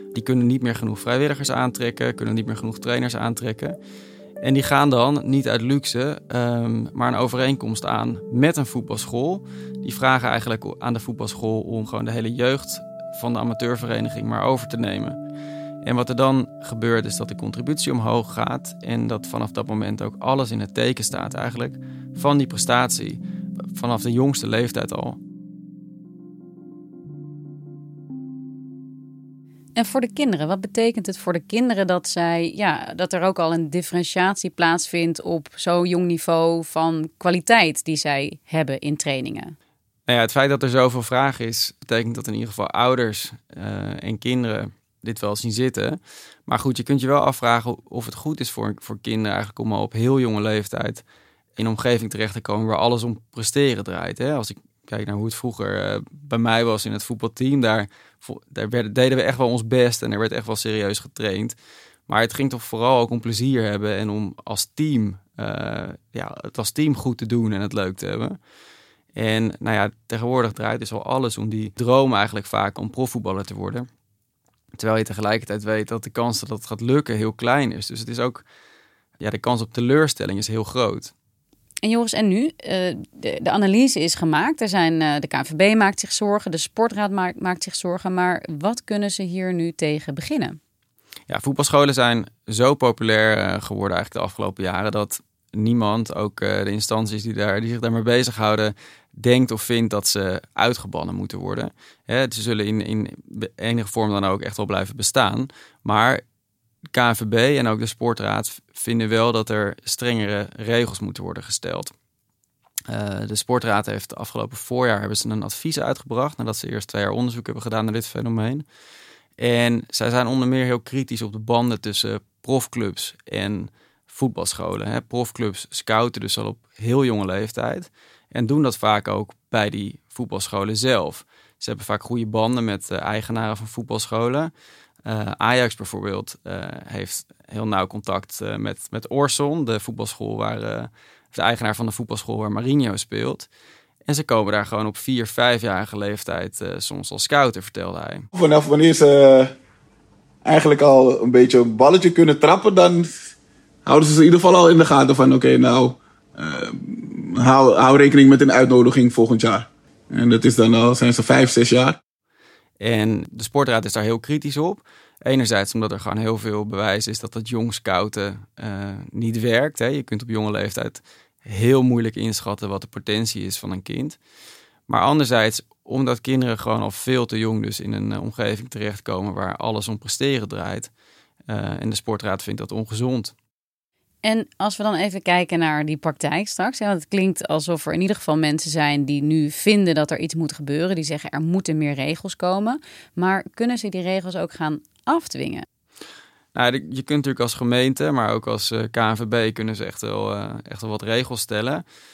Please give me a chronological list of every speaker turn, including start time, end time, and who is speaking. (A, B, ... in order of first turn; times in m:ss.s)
0:00.1-0:03.8 A
0:04.4-0:15.2 A
0:15.8-0:23.2 A
0:23.7-0:25.2 A
0:29.8-0:39.6 B
0:40.1-0:51.0 A
0:51.6-1:01.5 A
1:02.1-1:08.4 A
1:09.2-1:13.8 A
1:14.8-1:18.4 A
1:19.2-1:21.1 A
1:21.8-1:30.6 B
1:31.3-1:46.2 A
1:46.9-1:51.9 A
1:52.9-1:58.6 A
1:59.4-2:14.5 A
2:15.0-2:23.5 A
2:24.1-2:28.3 A
2:28.3-2:29.5 C
2:30.4-2:33.2 C
2:33.8-2:42.0 C
2:42.8-2:54.2 A
2:54.9-3:00.9 A
3:01.5-3:03.3 A
3:04.2-3:15.6 B
3:16.5-3:21.8 A